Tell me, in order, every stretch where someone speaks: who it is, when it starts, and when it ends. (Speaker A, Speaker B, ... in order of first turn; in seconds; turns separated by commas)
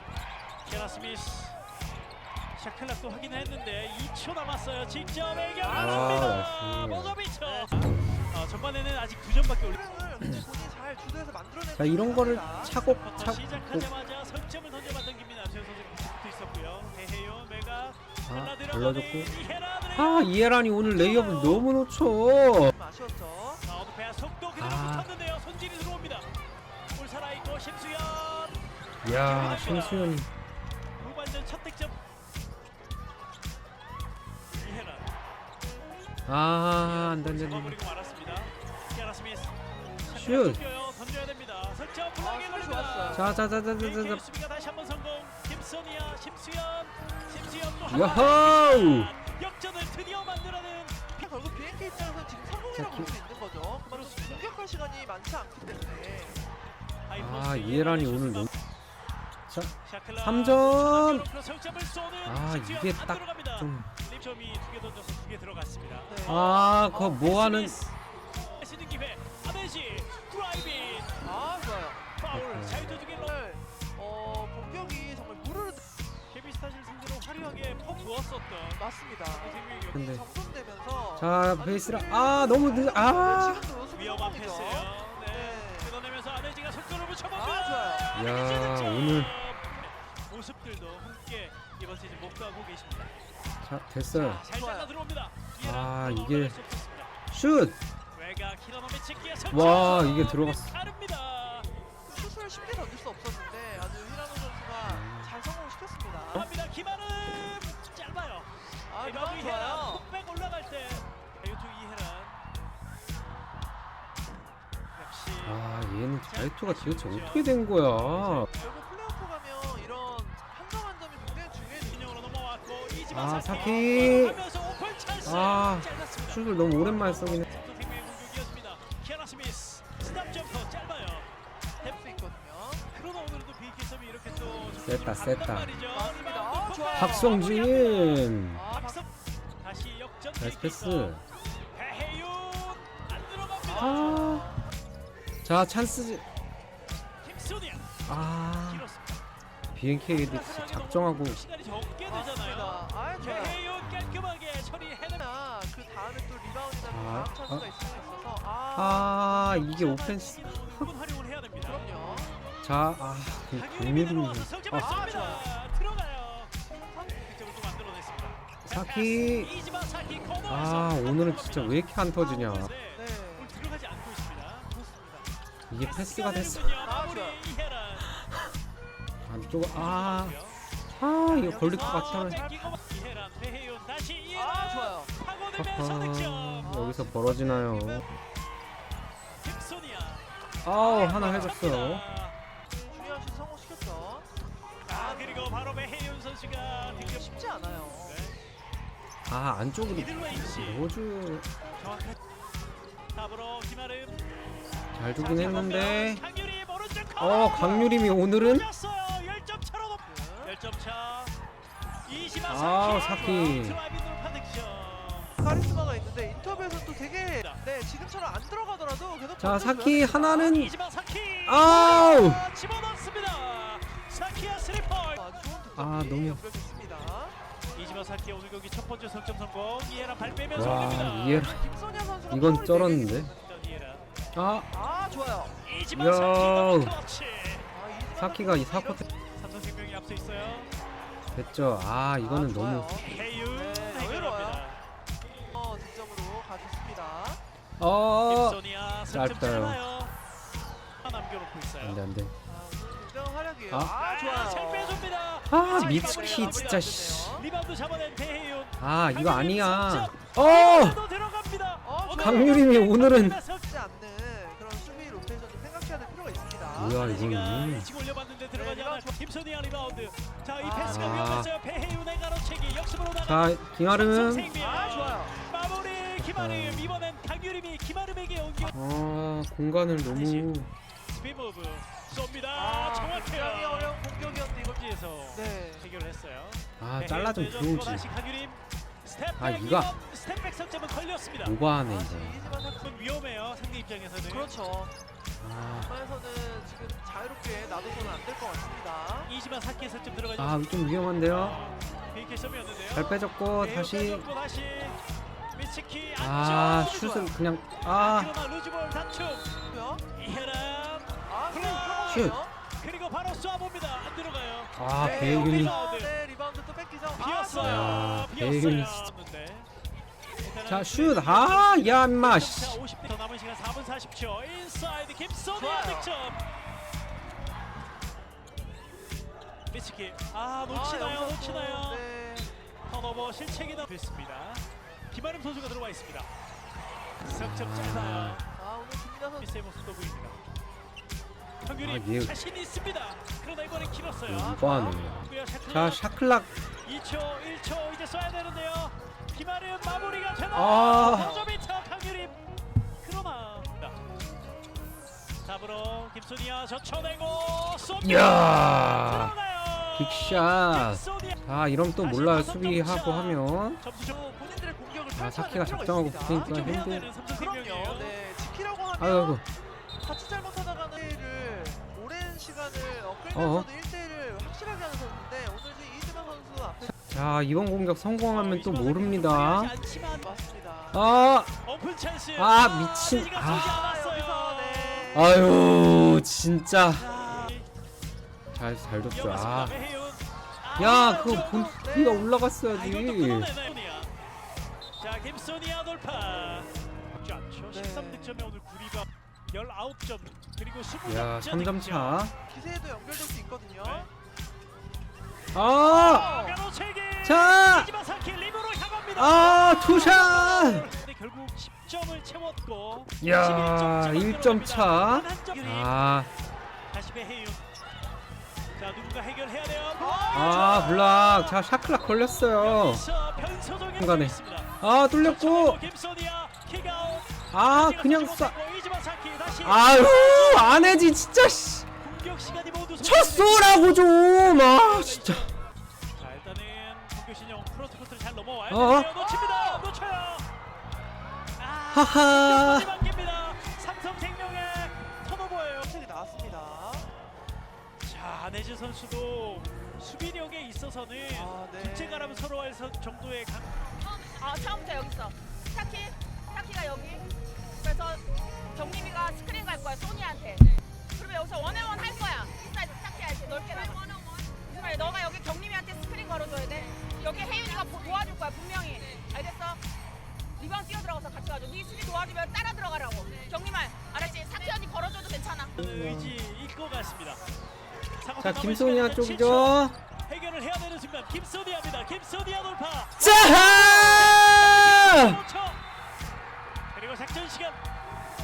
Speaker A: 0.6-1.6, Speaker A: 2.5-9.8, Speaker B: 5.6-6.2, Speaker C: 5.6-7.2, Speaker B: 9.7-12.8, Speaker C: 11.8-13.9, Speaker A: 12.7-20.3, Speaker C: 18.3-19.3, Speaker C: 19.9-22.7, Speaker A: 20.9-21.7, Speaker B: 22.6-23.6, Speaker A: 23.6-26.3, Speaker C: 24.6-25.1, Speaker A: 26.9-30.2, Speaker C: 29.0-30.3, Speaker A: 31.0-32.0, Speaker A: 34.6-35.1, Speaker C: 36.3-37.8, Speaker A: 36.8-51.2, Speaker C: 40.1-40.6, Speaker B: 42.2-43.3, Speaker C: 43.1-44.2, Speaker C: 47.9-49.1, Speaker B: 51.2-56.4, Speaker C: 52.8-53.1, Speaker A: 53.9-54.4, Speaker A: 57.1-58.5, Speaker C: 57.1-58.5, Speaker C: 59.5-61.3, Speaker A: 59.8-67.9, Speaker C: 62.2-63.9, Speaker B: 66.1-66.4, Speaker C: 66.2-67.9, Speaker A: 68.4-71.1, Speaker B: 71.2-72.0, Speaker A: 72.2-73.3, Speaker C: 72.3-73.0, Speaker B: 73.3-75.8, Speaker A: 76.3-80.1, Speaker B: 78.8-85.9, Speaker C: 79.9-80.2, Speaker C: 81.2-83.7, Speaker A: 83.9-93.1, Speaker B: 87.3-88.1, Speaker C: 88.1-89.3, Speaker C: 93.6-94.4, Speaker A: 94.1-97.1, Speaker B: 94.5-94.9, Speaker C: 95.6-96.6, Speaker C: 97.3-97.8, Speaker A: 98.1-101.7, Speaker C: 99.5-100.8, Speaker B: 102.0-106.5, Speaker C: 104.8-105.3, Speaker A: 106.3-108.5, Speaker B: 108.9-110.0, Speaker A: 109.0-112.4, Speaker A: 114.9-118.7, Speaker C: 115.4-118.5, Speaker B: 118.6-122.1, Speaker A: 121.9-131.3, Speaker C: 123.1-124.4, Speaker C: 125.2-127.5, Speaker B: 131.8-132.9, Speaker A: 132.9-141.2, Speaker C: 134.8-135.8, Speaker B: 135.9-137.4, Speaker C: 136.9-138.7, Speaker B: 138.5-139.1, Speaker C: 140.4-141.2, Speaker A: 141.7-144.4, Speaker C: 143.7-144.6, Speaker B: 143.8-144.6, Speaker C: 145.4-146.2, Speaker A: 147.2-147.9, Speaker C: 148.1-148.9, Speaker A: 148.6-149.2, Speaker C: 149.7-151.4, Speaker A: 150.1-155.2, Speaker B: 152.0-153.6, Speaker C: 153.8-154.3, Speaker B: 155.2-159.1, Speaker C: 156.8-157.7, Speaker C: 158.7-160.9, Speaker A: 159.3-161.9, Speaker B: 161.6-162.3, Speaker C: 162.6-164.7, Speaker A: 163.5-166.5, Speaker B: 164.7-165.5, Speaker B: 166.7-167.1, Speaker A: 167.1-174.7, Speaker C: 168.7-169.5, Speaker C: 170.5-172.7, Speaker B: 172.9-173.5, Speaker B: 174.7-175.3, Speaker C: 175.7-176.8, Speaker A: 175.8-178.1, Speaker B: 176.8-177.4, Speaker C: 178.2-178.5, Speaker C: 179.2-180.3, Speaker A: 179.7-180.6, Speaker C: 180.9-182.4, Speaker A: 181.3-187.1, Speaker B: 181.9-182.7, Speaker B: 184.3-185.1, Speaker C: 185.6-188.1, Speaker B: 187.1-188.0, Speaker A: 189.4-192.3, Speaker C: 190.6-192.0, Speaker B: 192.7-194.2, Speaker A: 194.8-197.3, Speaker B: 194.9-195.5, Speaker B: 197.1-198.2, Speaker A: 198.0-198.4, Speaker C: 199.2-201.5, Speaker A: 199.9-200.9, Speaker A: 201.8-202.2, Speaker A: 203.1-204.2, Speaker C: 204.9-206.2, Speaker A: 205.2-211.3, Speaker C: 207.2-208.7, Speaker B: 207.5-207.9, Speaker B: 210.0-210.5, Speaker A: 212.0-215.3, Speaker C: 212.5-213.8, Speaker B: 215.4-220.5, Speaker C: 219.4-220.7, Speaker A: 220.3-225.2, Speaker C: 221.4-222.5, Speaker B: 225.1-227.4, Speaker C: 225.8-226.4, Speaker A: 227.7-231.5, Speaker C: 230.5-231.6, Speaker B: 231.2-233.2, Speaker C: 232.3-233.3, Speaker A: 233.2-234.1, Speaker C: 234.3-234.7, Speaker B: 234.7-235.5, Speaker A: 235.6-237.7, Speaker C: 235.9-237.0, Speaker B: 237.7-239.0, Speaker C: 238.2-239.0, Speaker A: 239.3-240.7, Speaker C: 241.3-243.1, Speaker B: 242.2-244.6, Speaker A: 243.0-244.8, Speaker B: 245.5-247.4, Speaker C: 247.8-249.8, Speaker A: 248.3-250.1, Speaker A: 251.0-252.0, Speaker C: 251.8-252.3, Speaker B: 252.4-255.1, Speaker A: 253.9-263.7, Speaker C: 255.5-257.4, Speaker B: 255.7-257.4, Speaker C: 258.8-261.0, Speaker B: 261.8-262.3, Speaker C: 262.1-263.4, Speaker B: 263.6-266.9, Speaker C: 266.8-267.9, Speaker A: 266.8-278.8, Speaker B: 268.5-269.1, Speaker B: 270.6-271.0, Speaker C: 270.9-271.5, Speaker C: 273.2-274.5, Speaker B: 274.6-275.5, Speaker C: 276.2-277.1, Speaker C: 278.7-280.7, Speaker A: 280.0-280.5, Speaker A: 281.1-291.5, Speaker B: 282.5-284.8, Speaker B: 285.3-285.9, Speaker C: 286.8-288.1, Speaker C: 289.4-289.9, Speaker C: 291.4-292.4, Speaker B: 291.9-293.2, Speaker A: 292.8-294.5, Speaker B: 294.3-294.9, Speaker C: 295.4-295.9, Speaker B: 295.9-299.3, Speaker A: 299.3-300.6, Speaker C: 300.4-301.6, Speaker A: 301.2-305.0, Speaker C: 302.9-304.3, Speaker A: 305.5-307.3, Speaker C: 306.2-308.3, Speaker A: 307.9-309.5, Speaker B: 309.7-310.0, Speaker A: 310.1-316.1, Speaker B: 311.2-312.5, Speaker C: 312.1-312.4, Speaker C: 314.8-315.8, Speaker B: 315.0-318.1, Speaker A: 317.1-319.7, Speaker C: 317.6-319.1, Speaker A: 320.4-326.4, Speaker C: 320.7-322.8, Speaker B: 325.5-326.1, Speaker A: 329.7-332.0, Speaker B: 330.7-332.5, Speaker A: 332.8-336.3, Speaker A: 337.2-338.4, Speaker C: 337.2-338.4, Speaker B: 338.6-339.5, Speaker A: 339.4-340.4, Speaker A: 341.6-346.0, Speaker C: 341.8-342.3, Speaker C: 344.3-346.5, Speaker B: 344.4-345.0, Speaker A: 346.8-352.4, Speaker C: 350.5-351.4, Speaker A: 353.0-354.0, Speaker A: 355.4-361.4, Speaker C: 358.0-359.3, Speaker C: 359.9-363.8, Speaker A: 362.0-364.2, Speaker B: 364.1-366.6, Speaker C: 365.2-367.1, Speaker A: 366.4-368.1, Speaker B: 367.3-369.4, Speaker C: 369.0-369.4, Speaker B: 370.0-376.9, Speaker C: 373.3-373.7, Speaker C: 376.9-379.7, Speaker A: 378.3-380.3, Speaker B: 380.2-381.0, Speaker C: 380.9-381.6, Speaker A: 381.6-385.1, Speaker C: 382.4-383.9, Speaker B: 383.8-385.1, Speaker C: 385.1-387.1, Speaker A: 386.9-387.7, Speaker C: 388.5-389.8, Speaker A: 389.1-391.7, Speaker C: 390.8-393.5, Speaker B: 391.0-392.3, Speaker A: 392.7-394.1, Speaker A: 395.0-402.2, Speaker B: 397.7-398.4, Speaker C: 401.1-402.3, Speaker B: 402.5-404.1, Speaker A: 403.8-404.1, Speaker C: 405.5-406.3, Speaker A: 405.8-415.9, Speaker B: 406.0-406.6, Speaker C: 407.2-407.9, Speaker C: 409.1-410.9, Speaker C: 413.2-416.3, Speaker A: 416.9-417.6, Speaker A: 418.8-421.5, Speaker B: 420.0-420.9, Speaker C: 420.3-423.0, Speaker A: 422.6-424.7, Speaker C: 424.0-425.8, Speaker A: 425.2-431.1, Speaker C: 427.5-428.5, Speaker C: 429.4-431.9, Speaker A: 432.0-434.1, Speaker C: 433.0-435.5, Speaker A: 434.6-435.5, Speaker A: 436.1-440.5, Speaker C: 438.7-439.1, Speaker B: 439.2-439.9, Speaker A: 441.6-445.9, Speaker C: 441.9-442.9, Speaker B: 445.8-447.1, Speaker A: 448.0-453.9, Speaker B: 451.3-452.5, Speaker D: 454.0-457.2, Speaker D: 457.8-469.8, Speaker D: 470.6-475.7, Speaker C: 475.8-476.4, Speaker A: 475.8-477.4, Speaker A: 478.2-485.8, Speaker C: 478.4-479.9, Speaker C: 483.2-485.4, Speaker B: 483.2-484.4, Speaker A: 486.9-487.8